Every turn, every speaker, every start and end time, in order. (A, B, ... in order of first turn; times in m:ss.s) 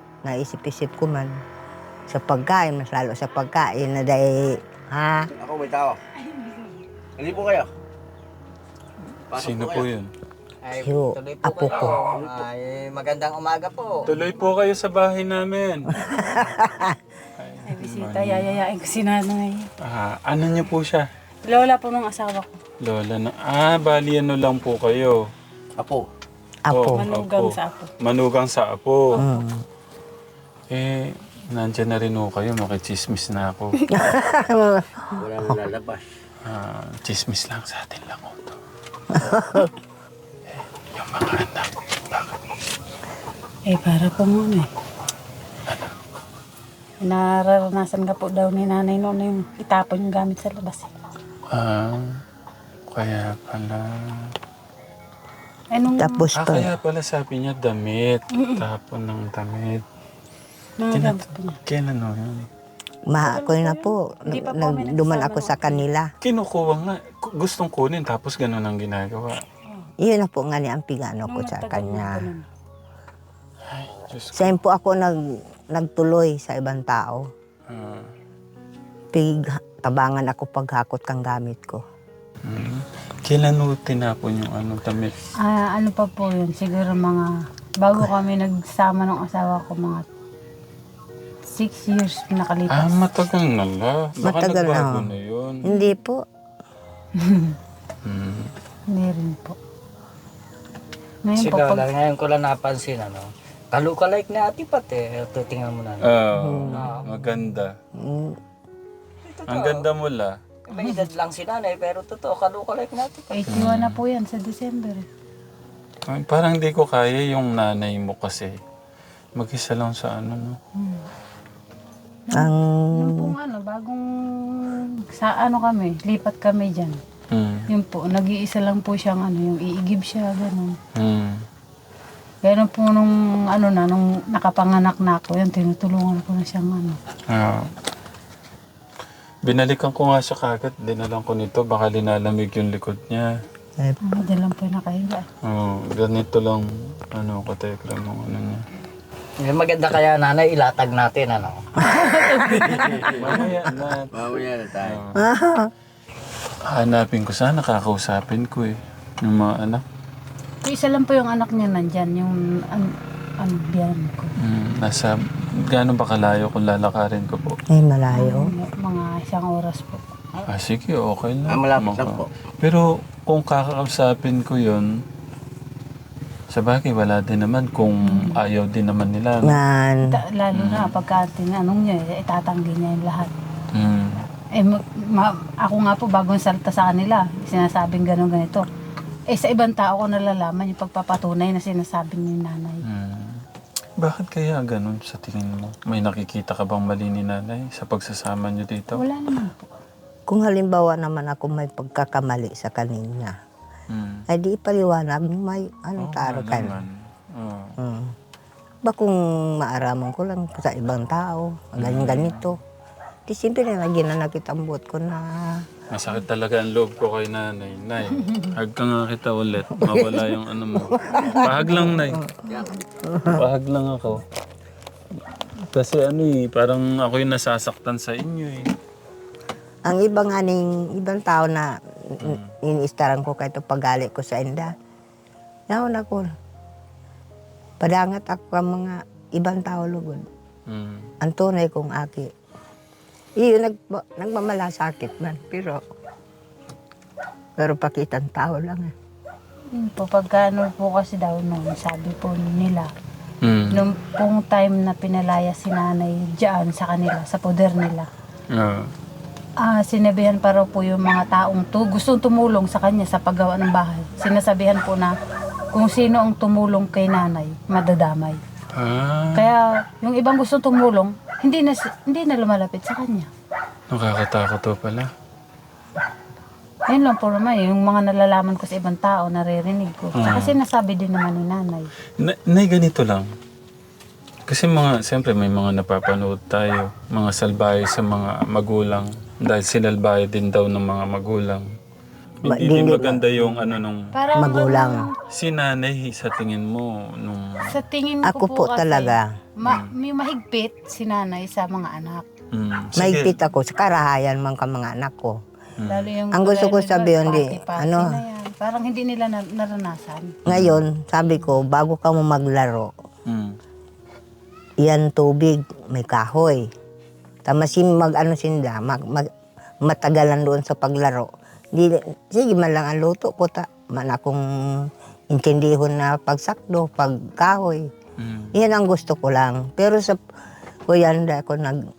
0:00.2-0:01.4 A
0:02.1-0:05.3 A
0:05.4-0:06.0 B
0:07.2-0:07.7 B
0:09.3-0:09.8 B
0:09.3-0:10.1 C
0:10.6-0:14.0 D
0:10.8-0:12.0 A
0:12.2-0:12.4 B
0:14.0-0:16.0 C
0:16.0-0:17.0 A
0:17.4-0:18.5 C
0:17.6-0:19.7 E
0:19.8-0:21.0 C
0:21.4-0:22.6 E
0:22.8-0:25.2 C
0:25.8-0:26.0 B
0:26.6-0:27.1 A
0:26.7-0:29.2 C
0:27.0-0:27.9 E
0:29.2-0:29.6 A
0:31.5-0:33.8 C
0:33.9-0:35.6 A
0:35.2-0:36.0 B
0:36.4-0:38.6 C
0:39.1-0:39.7 A
0:40.5-0:42.3 C
0:43.7-0:44.7 E
0:47.0-0:50.9 E
0:51.5-0:52.0 C
0:52.9-0:54.3 C
0:55.7-0:56.2 E
0:56.0-0:56.8 A
0:56.4-0:59.8 C
1:00.8-1:01.6 E
1:00.9-1:02.5 C
1:03.1-1:06.1 A
1:03.2-1:05.8 E
1:06.2-1:09.4 C
1:10.0-1:12.3 A
1:11.3-1:12.4 E
1:13.7-1:14.6 C
1:14.3-1:17.2 A
1:17.7-1:18.0 C
1:19.1-1:21.8 A
1:22.4-1:25.1 C
1:25.4-1:30.0 E
1:31.5-1:33.0 E
1:32.7-1:35.6 C
1:34.2-1:35.1 A
1:35.6-1:36.2 A
1:35.7-1:35.9 E
1:37.2-1:37.6 E
1:38.0-1:38.5 C
1:38.9-1:39.6 E
1:41.2-1:41.8 E
1:41.3-1:47.0 D
1:46.0-1:47.7 C
1:46.4-1:46.9 A
1:48.0-1:48.3 A
1:49.2-1:49.8 D
1:49.4-1:50.4 C
1:50.7-1:53.4 D
1:53.3-1:55.0 E
1:53.5-1:54.0 C
1:56.1-1:58.5 C
1:59.4-2:00.6 C
2:00.8-2:01.0 E
2:02.3-2:07.0 E
2:02.3-2:03.3 A
2:07.3-2:07.6 C
2:07.7-2:10.8 E
2:11.0-2:11.3 C
2:12.4-2:17.0 E
2:17.3-2:17.6 C
2:19.4-2:23.3 C
2:24.0-2:25.2 E
2:25.4-2:28.6 C
2:29.4-2:31.6 D
2:31.8-2:33.0 A
2:32.7-2:33.1 B
2:33.1-2:34.2 C
2:34.1-2:35.0 B
2:34.8-2:35.2 C
2:35.1-2:35.7 A
2:36.6-2:39.8 C
2:40.6-2:44.3 E
2:44.4-2:45.1 C
2:45.7-2:47.6 C
2:47.7-2:48.5 A
2:48.1-2:50.1 E
2:50.5-2:54.8 C
2:51.5-2:52.2 B
2:56.5-2:59.6 C
2:59.4-3:00.1 A
3:00.1-3:03.3 E
3:00.5-3:00.9 C
3:03.7-3:04.2 C
3:04.6-3:08.6 E
3:09.3-3:12.8 E
3:12.9-3:13.4 C
3:14.0-3:19.0 C
3:18.9-3:19.7 E
3:20.3-3:23.3 A
3:23.9-3:24.2 C
3:24.3-3:26.8 A
3:26.0-3:27.7 C
3:27.8-3:28.1 A
3:28.8-3:32.6 A
3:31.8-3:32.5 C
3:33.3-3:35.6 A
3:35.9-3:42.2 C
3:39.8-3:42.4 A
3:43.0-3:43.5 A
3:43.3-3:44.2 C
3:45.7-3:48.6 C
3:49.8-3:54.7 A
3:52.2-3:52.5 C
3:55.7-3:56.2 A
3:57.8-4:00.2 A
4:00.7-4:01.1 C
4:01.2-4:02.3 A
4:03.4-4:05.8 A
4:07.6-4:08.9 A
4:09.7-4:12.9 E
4:13.4-4:13.8 C
4:13.7-4:18.1 E
4:18.5-4:18.9 C
4:19.6-4:25.1 E
4:25.7-4:28.4 E
4:28.7-4:29.5 C
4:29.3-4:33.3 E
4:33.9-4:35.1 C
4:36.9-4:41.9 E
4:40.2-4:40.6 C
4:42.2-4:43.2 C
4:44.5-4:51.6 C
4:52.4-4:54.1 C
4:52.4-4:53.8 A
4:54.1-4:55.1 E
4:54.4-4:55.0 A
4:55.3-4:57.7 C
4:57.7-5:02.2 E
4:58.2-4:59.2 A
5:02.5-5:03.4 C
5:03.0-5:05.3 A
5:05.8-5:06.1 C
5:05.9-5:10.4 E
5:06.3-5:08.1 A
5:10.5-5:12.9 A
5:10.5-5:10.9 C
5:13.3-5:13.5 C
5:14.8-5:16.6 A
5:17.4-5:19.3 A
5:19.8-5:27.9 A
5:28.2-5:28.5 C
5:28.5-5:30.2 A
5:30.9-5:31.8 A